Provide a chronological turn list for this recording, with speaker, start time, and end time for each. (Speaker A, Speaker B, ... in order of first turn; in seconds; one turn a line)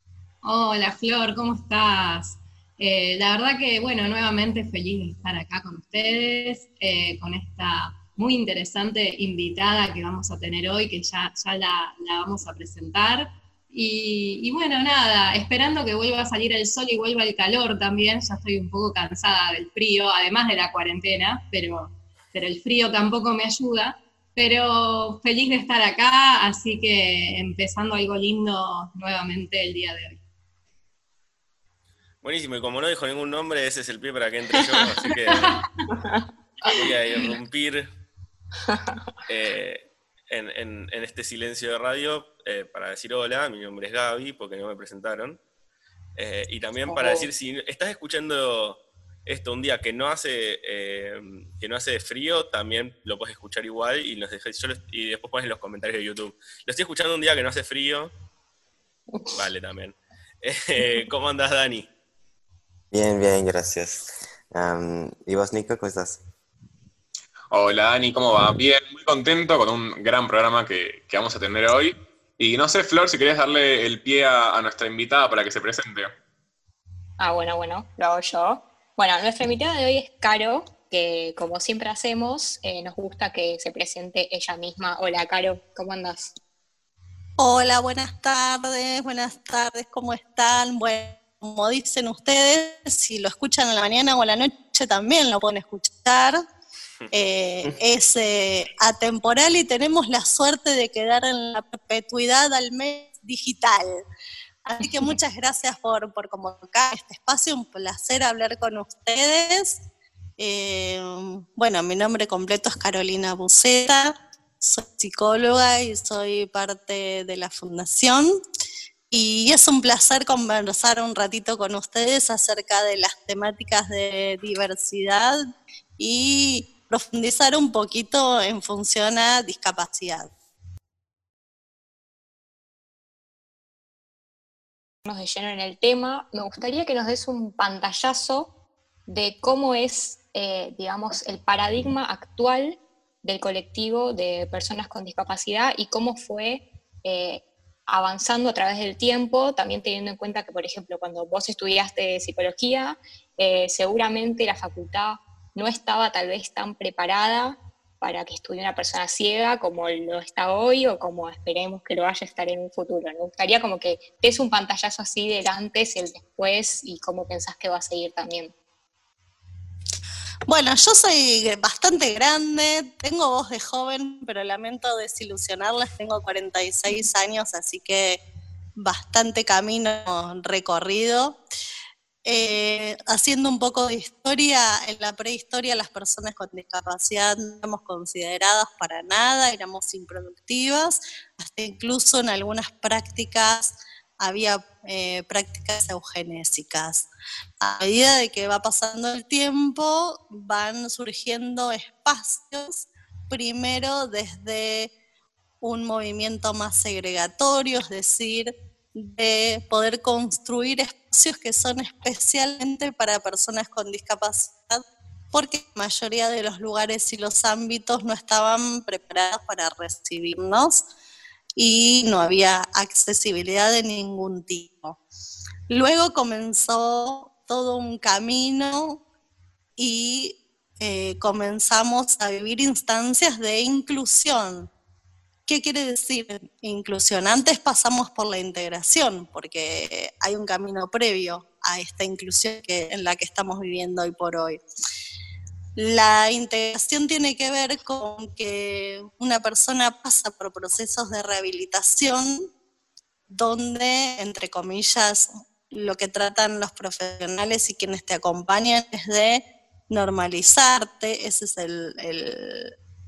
Speaker A: 0.4-30.2
Speaker B: 32.2-35.6
Speaker B: 36.7-37.9
Speaker C: 38.7-39.0
Speaker B: 39.3-45.4
Speaker B: 46.2-58.1
Speaker C: 46.9-47.3
Speaker B: 59.4-61.9
Speaker D: 62.9-66.2
Speaker E: 67.5-76.1
Speaker C: 77.2-86.3
Speaker F: 87.4-96.4
Speaker F: 97.1-104.0
Speaker F: 104.7-109.8
Speaker F: 110.4-118.3
Speaker F: 119.1-125.4
Speaker F: 126.0-130.3
Speaker C: 135.1-138.5
Speaker C: 139.1-168.5
Speaker F: 170.5-178.2
Speaker F: 178.8-181.4
Speaker F: 182.2-197.1
Speaker F: 197.6-204.9
Speaker F: 205.6-220.8
Speaker F: 221.6-225.0
Speaker F: 225.7-229.0
Speaker F: 229.8-234.7
Speaker F: 235.5-244.6
Speaker F: 245.8-252.5
Speaker F: 253.3-262.7